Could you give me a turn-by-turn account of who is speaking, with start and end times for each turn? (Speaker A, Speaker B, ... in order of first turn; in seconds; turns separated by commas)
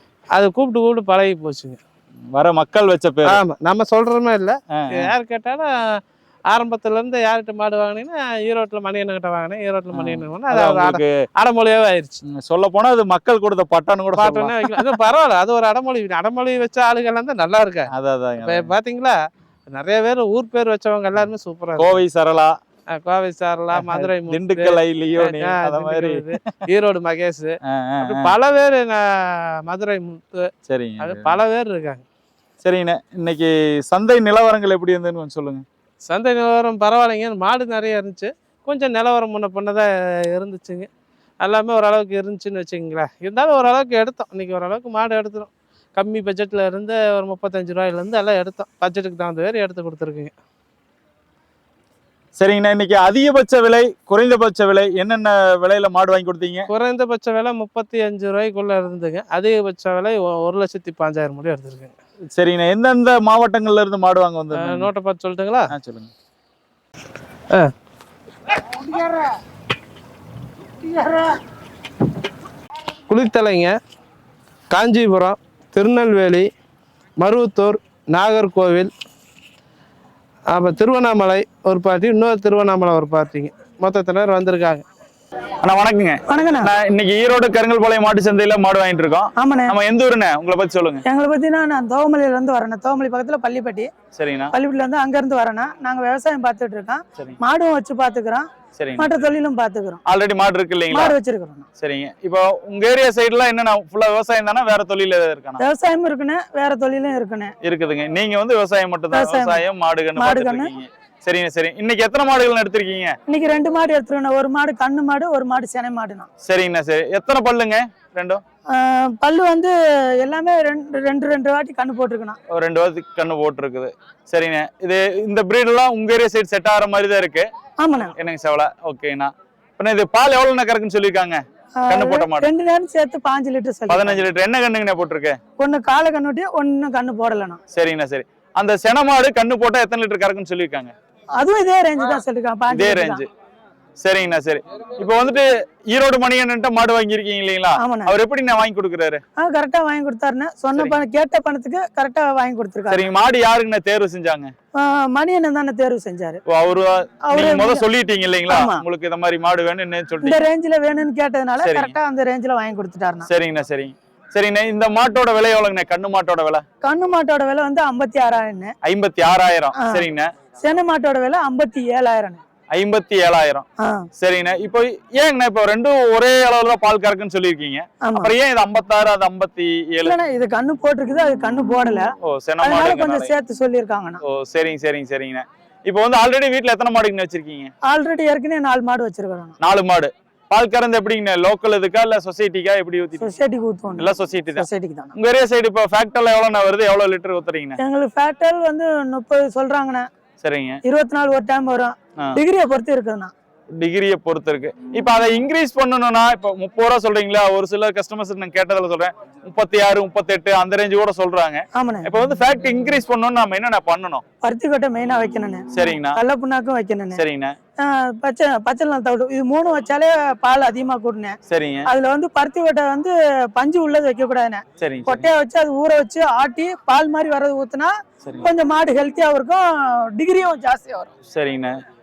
Speaker A: 0.3-1.8, Speaker B: 2.3-3.4, Speaker A: 3.2-5.7, Speaker B: 4.8-5.1, Speaker A: 6.5-12.2, Speaker B: 9.9-11.1, Speaker B: 12.3-14.6, Speaker A: 14.2-19.1, Speaker B: 17.9-18.7, Speaker A: 19.7-22.0, Speaker B: 21.8-22.5, Speaker A: 22.9-32.0, Speaker B: 23.7-26.3, Speaker B: 27.6-28.3, Speaker B: 30.7-31.4, Speaker B: 32.6-35.6, Speaker A: 36.0-40.9, Speaker A: 41.4-50.3, Speaker B: 52.4-56.7, Speaker A: 56.7-62.0, Speaker B: 62.4-64.9, Speaker A: 64.5-65.7, Speaker B: 65.7-66.1, Speaker A: 73.1-73.7, Speaker A: 74.7-76.5, Speaker A: 77.2-78.9, Speaker A: 80.5-84.8, Speaker B: 85.6-91.0, Speaker C: 86.3-86.7, Speaker C: 89.4-89.8, Speaker C: 91.0-93.9, Speaker B: 94.1-94.5, Speaker C: 94.5-98.5, Speaker B: 98.8-99.2, Speaker C: 99.0-100.0, Speaker B: 100.0-101.2, Speaker C: 100.9-101.7, Speaker B: 101.8-105.6, Speaker C: 105.6-107.5, Speaker B: 107.6-113.1, Speaker C: 109.1-109.6, Speaker C: 110.2-110.7, Speaker C: 113.3-116.3, Speaker B: 116.4-118.4, Speaker C: 118.7-122.4, Speaker B: 122.5-127.5, Speaker C: 127.8-128.1, Speaker B: 128.1-132.5, Speaker C: 131.8-134.2, Speaker B: 133.9-135.4, Speaker C: 135.6-137.6, Speaker B: 137.7-140.9, Speaker C: 141.4-143.2, Speaker B: 142.7-143.3, Speaker B: 144.0-149.2, Speaker C: 147.8-148.1, Speaker C: 149.4-153.0, Speaker B: 152.9-154.5, Speaker C: 154.8-156.4, Speaker B: 156.5-160.4, Speaker C: 157.3-157.8, Speaker C: 158.5-158.8, Speaker C: 160.2-163.3, Speaker B: 161.6-161.9, Speaker B: 163.3-166.6, Speaker C: 166.8-168.7, Speaker B: 168.8-170.3, Speaker C: 169.8-170.0, Speaker C: 170.6-172.4, Speaker B: 172.7-173.7, Speaker C: 173.8-174.1, Speaker B: 174.2-180.2, Speaker C: 178.0-178.3, Speaker C: 180.0-182.1, Speaker B: 182.2-183.3, Speaker C: 182.6-184.2, Speaker B: 184.3-187.7, Speaker C: 187.9-189.6, Speaker B: 189.6-193.3, Speaker C: 193.2-195.1, Speaker B: 194.0-197.8, Speaker C: 197.8-200.1, Speaker B: 200.4-200.8, Speaker C: 200.8-203.3, Speaker B: 203.8-214.2, Speaker C: 211.7-212.1, Speaker C: 214.4-217.2, Speaker B: 215.7-216.2, Speaker B: 217.1-217.6, Speaker C: 217.8-231.1, Speaker B: 221.5-221.9, Speaker B: 224.8-225.3, Speaker B: 231.3-231.7